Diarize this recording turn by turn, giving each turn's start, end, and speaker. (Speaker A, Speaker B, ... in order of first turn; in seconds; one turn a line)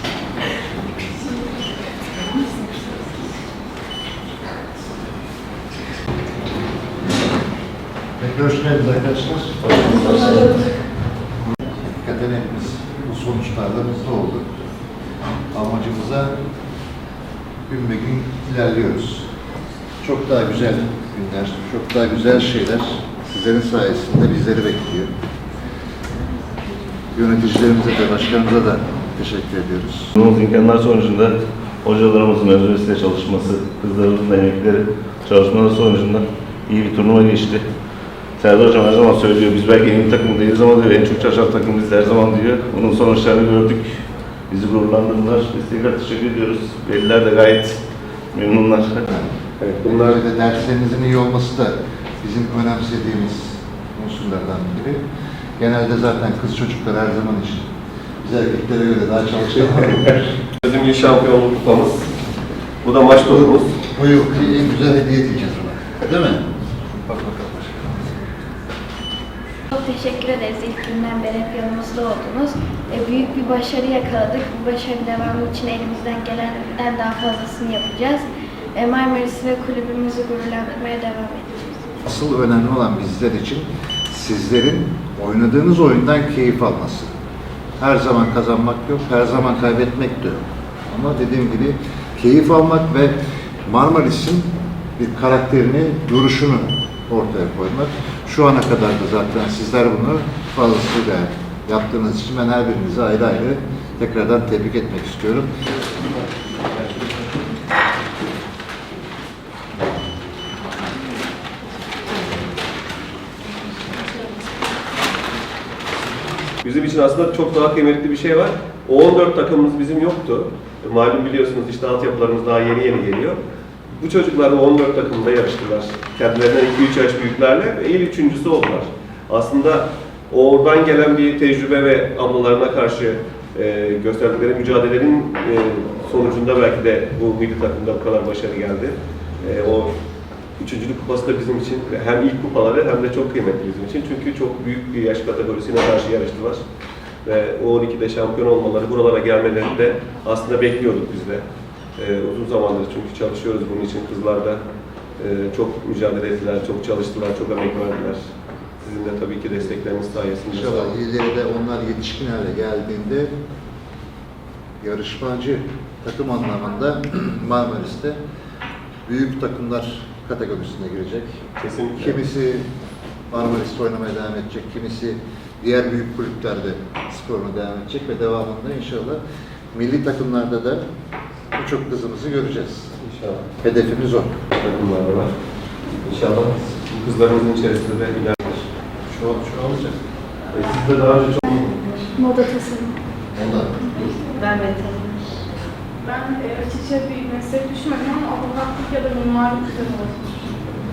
Speaker A: 8.2-10.6
Speaker A: 11.5-14.5
Speaker A: 15.5-16.3
Speaker A: 17.7-19.3
Speaker A: 20.0-25.1
Speaker A: 27.1-30.1
Speaker B: 30.1-37.7
Speaker B: 38.4-43.9
Speaker B: 44.5-47.8
Speaker B: 48.3-49.1
Speaker A: 49.1-49.3
Speaker C: 49.6-50.2
Speaker A: 49.8-55.0
Speaker A: 55.6-57.7
Speaker A: 58.2-60.4
Speaker C: 60.6-62.1
Speaker C: 62.8-63.7
Speaker A: 63.1-68.2
Speaker D: 69.7-81.8
Speaker A: 82.0-87.1
Speaker A: 87.8-105.5
Speaker C: 116.6-123.4
Speaker C: 124.0-139.9
Speaker C: 140.6-146.6
Speaker C: 147.2-151.4
Speaker C: 152.0-154.6
Speaker C: 155.2-158.2
Speaker C: 158.8-160.9
Speaker A: 160.5-163.3
Speaker A: 164.8-168.2
Speaker A: 169.0-172.7
Speaker C: 171.6-172.2
Speaker A: 173.3-179.2
Speaker A: 179.7-180.8
Speaker A: 181.5-182.9
Speaker C: 183.0-183.4
Speaker A: 183.6-184.4
Speaker C: 184.5-185.3
Speaker C: 186.0-188.4
Speaker A: 189.1-190.0
Speaker C: 190.5-192.1
Speaker E: 192.2-192.9
Speaker A: 193.3-194.1
Speaker D: 194.3-195.3
Speaker E: 196.0-200.5